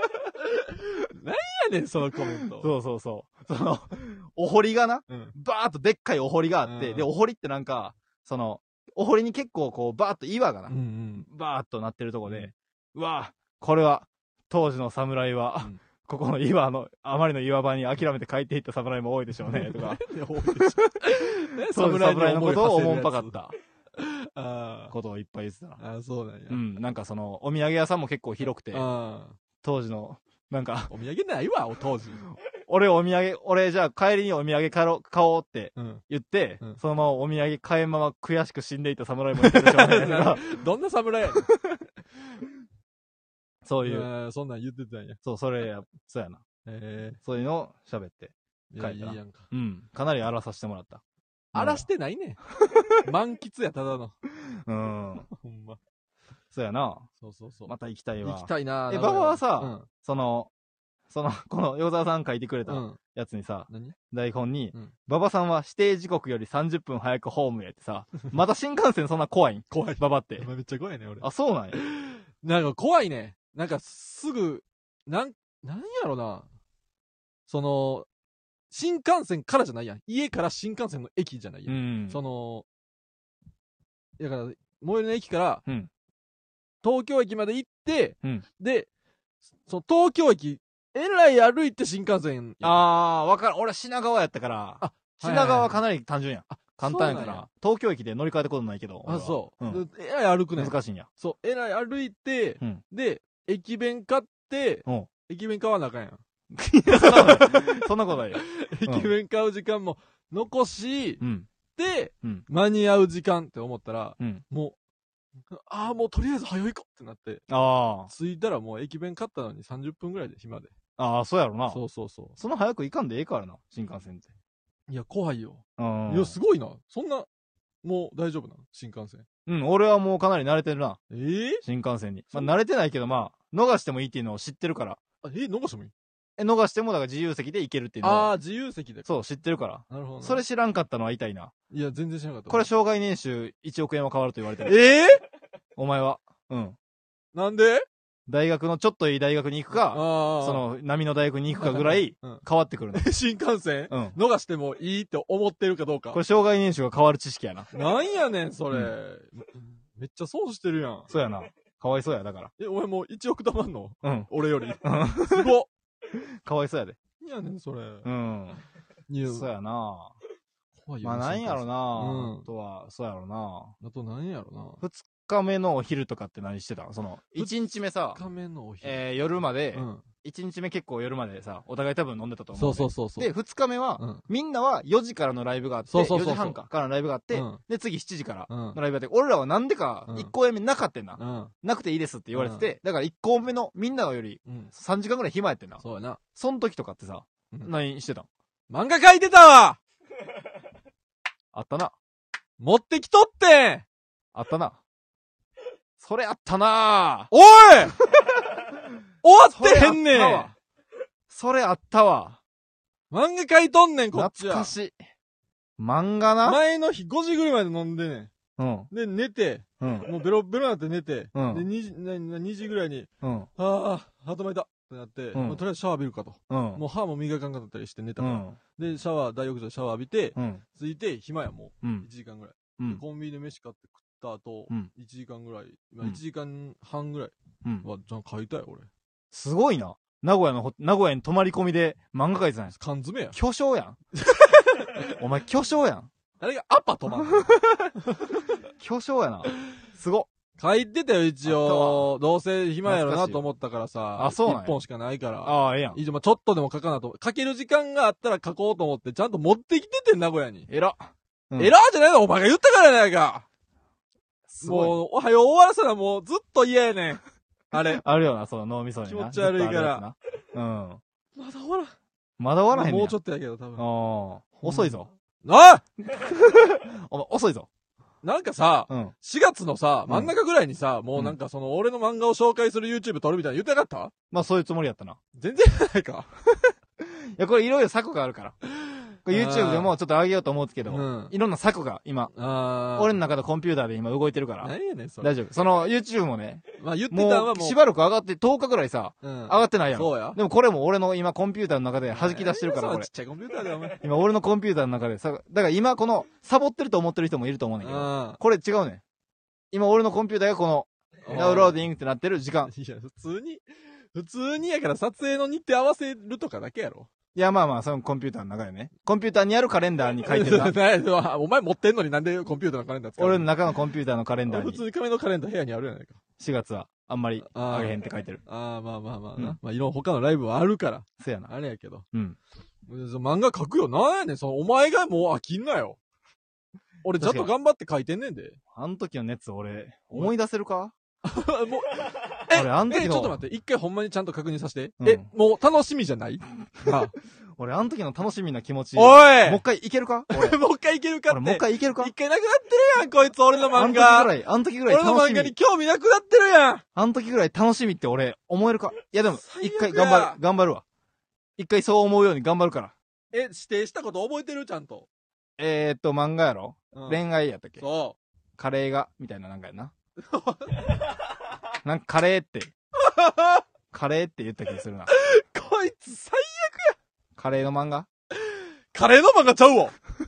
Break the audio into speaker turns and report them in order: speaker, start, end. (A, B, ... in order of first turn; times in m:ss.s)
0:00.4-0:02.7 A
0:02.5-0:23.5 B
0:05.1-0:05.3 A
0:06.6-0:07.1 A
0:10.7-0:11.3 A
0:19.4-0:23.4 A
0:24.0-0:24.9 A
0:24.9-0:25.8 B
0:25.8-0:26.6 A
0:26.5-0:28.8 B
0:28.7-0:29.4 A
0:29.6-0:30.9 B
0:30.9-0:32.2 A
0:32.6-0:40.5 B
0:35.8-0:36.0 A
0:39.4-0:41.5 A
0:43.6-0:44.1 B
0:43.8-0:45.2 A
0:45.2-0:46.4 B
0:46.6-0:47.2 A
0:47.2-0:51.0 B
0:48.7-0:49.5 A
0:51.5-0:51.8 B
0:51.5-0:52.4 A
0:53.0-0:54.2 A
0:54.6-0:55.3 B
0:55.3-0:55.8 A
0:56.5-0:57.1 B
0:57.2-0:57.7 A
0:57.7-1:00.5 B
0:58.2-0:59.9 A
1:01.1-1:10.5 B
1:02.7-1:03.0 A
1:03.7-1:04.0 A
1:09.7-1:16.4 A
1:11.2-1:11.8 B
1:17.5-1:18.1 A
1:18.7-1:22.6 A
1:21.7-1:22.2 B
1:24.2-1:25.6 A
1:26.8-1:28.9 A
1:29.7-1:32.8 A
1:32.6-1:39.8 B
1:34.8-1:35.8 A
1:36.5-1:37.4 A
1:39.0-1:46.2 A
1:40.6-1:41.1 B
1:46.5-1:49.1 B
1:46.9-1:51.2 A
1:51.2-1:51.5 B
1:51.8-1:54.8 A
1:55.5-1:57.4 A
1:57.5-1:58.1 B
1:58.1-2:00.7 A
2:01.0-2:01.8 B
2:01.7-2:02.4 A
2:02.4-2:04.3 B
2:04.9-2:07.3 A
2:05.8-2:06.4 B
2:07.8-2:09.2 A
2:09.4-2:11.0 B
2:11.1-2:11.6 A
2:11.6-2:15.0 B
2:15.2-2:15.9 A
2:16.4-2:18.3 B
2:18.0-2:19.1 A
2:19.0-2:21.5 B
2:19.9-2:20.4 A
2:21.7-2:22.7 A
2:22.5-2:24.8 B
2:24.6-2:25.2 A
2:25.8-2:26.8 B
2:27.3-2:27.9 A
2:28.3-2:33.1 B
2:29.7-2:30.6 A
2:31.5-2:32.4 A
2:32.9-2:36.2 A
2:33.9-2:34.2 B
2:36.1-2:37.7 B
2:37.7-2:41.1 A
2:41.1-2:42.5 B
2:42.6-2:45.7 A
2:44.0-2:44.3 B
2:44.8-2:45.5 B
2:46.4-2:47.0 B
2:47.2-2:48.1 A
2:48.0-2:48.6 B
2:49.1-2:49.5 A
2:49.2-2:50.1 B
2:50.8-2:52.5 A
2:51.0-2:53.7 B
2:53.8-2:54.8 A
2:54.8-2:58.2 B
2:58.1-2:59.0 A
2:58.8-3:15.8 B
2:59.7-3:00.0 A
3:02.5-3:03.3 A
3:04.0-3:04.2 A
3:05.9-3:06.6 A
3:07.3-3:07.6 A
3:08.5-3:08.8 A
3:11.2-3:11.5 A
3:12.3-3:12.6 A
3:14.4-3:14.7 A
3:15.8-3:16.2 A
3:16.3-3:18.3 B
3:18.7-3:19.8 A
3:21.5-3:21.9 B
3:22.6-3:23.8 A
3:24.3-3:24.8 B
3:26.0-3:27.3 B
3:27.3-3:27.9 A
3:29.2-3:30.5 A
3:29.5-3:30.5 B
3:31.3-3:32.4 B
3:33.1-3:34.7 A
3:34.1-3:34.9 B
3:35.8-3:36.6 B
3:36.4-3:38.3 A
3:38.6-3:38.9 B
3:38.9-3:58.9 A
3:39.8-3:40.1 B
3:41.3-3:41.6 B
3:43.2-3:43.5 B
3:45.3-3:45.6 B
3:46.5-3:46.8 B
3:48.2-3:48.6 B
3:50.4-3:50.6 B
3:51.8-3:52.1 B
3:52.8-3:53.0 B
3:59.3-4:02.7 B
4:02.7-4:03.4 A
4:03.3-4:04.0 B
4:04.1-4:05.1 A
4:05.1-4:06.1 B
4:06.4-4:08.5 A
4:08.8-4:10.3 B
4:10.6-4:20.7 A
4:11.4-4:12.1 B
4:12.8-4:13.4 B
4:14.2-4:14.8 B
4:15.4-4:16.0 B
4:20.7-4:21.7 B
4:21.6-4:23.4 A
4:24.5-4:25.0 B
4:24.6-4:27.2 A
4:27.7-4:28.0 A
4:27.7-4:31.0 B
4:29.0-4:30.0 A
4:31.4-4:31.9 A
4:32.4-4:33.2 B
4:32.7-4:33.8 A
4:33.8-4:35.1 B
4:34.6-4:35.8 A
4:36.0-4:37.7 B
4:38.2-4:44.1 A
4:44.3-4:45.2 B
4:45.3-4:46.3 A
4:47.0-4:48.5 B
4:48.8-4:49.9 A
4:49.2-4:52.3 B
4:50.9-4:51.3 A
4:52.3-4:53.2 A
4:52.9-5:03.1 B
4:54.6-4:55.3 A
4:56.8-4:57.8 A
4:59.2-5:00.4 A
5:02.1-5:04.0 A
5:04.0-5:09.0 B
5:07.8-5:08.4 A
5:09.7-5:12.7 B
5:11.2-5:11.8 A
5:12.7-5:17.1 A
5:17.3-5:20.8 B
5:20.2-5:23.5 A
5:23.2-5:24.8 B
5:24.5-5:26.2 A
5:26.4-5:28.4 B
5:27.4-5:32.0 A
5:31.2-5:31.5 B
5:32.1-5:32.4 B
5:32.9-5:36.0 A
5:37.0-5:38.6 A
5:37.2-5:37.5 B
5:38.7-5:40.9 B
5:41.2-5:47.1 A
5:42.5-5:43.4 B
5:45.0-5:45.3 B
5:47.6-5:50.6 B
5:48.9-5:49.6 A
5:50.3-5:54.3 A
5:51.3-5:52.1 B
5:53.7-5:55.5 B
5:54.8-5:56.8 A
5:57.0-6:00.8 B
5:59.4-6:00.4 A
6:01.6-6:02.9 B
6:03.3-6:05.1 A
6:05.6-6:07.8 B
6:06.9-6:07.2 A
6:07.8-6:08.2 A
6:08.6-6:09.9 B
6:10.2-6:10.9 A
6:11.8-6:12.7 B
6:13.0-6:13.6 A
6:13.9-6:15.1 B
6:15.1-6:17.0 A
6:17.4-6:18.1 B
6:18.3-6:19.9 A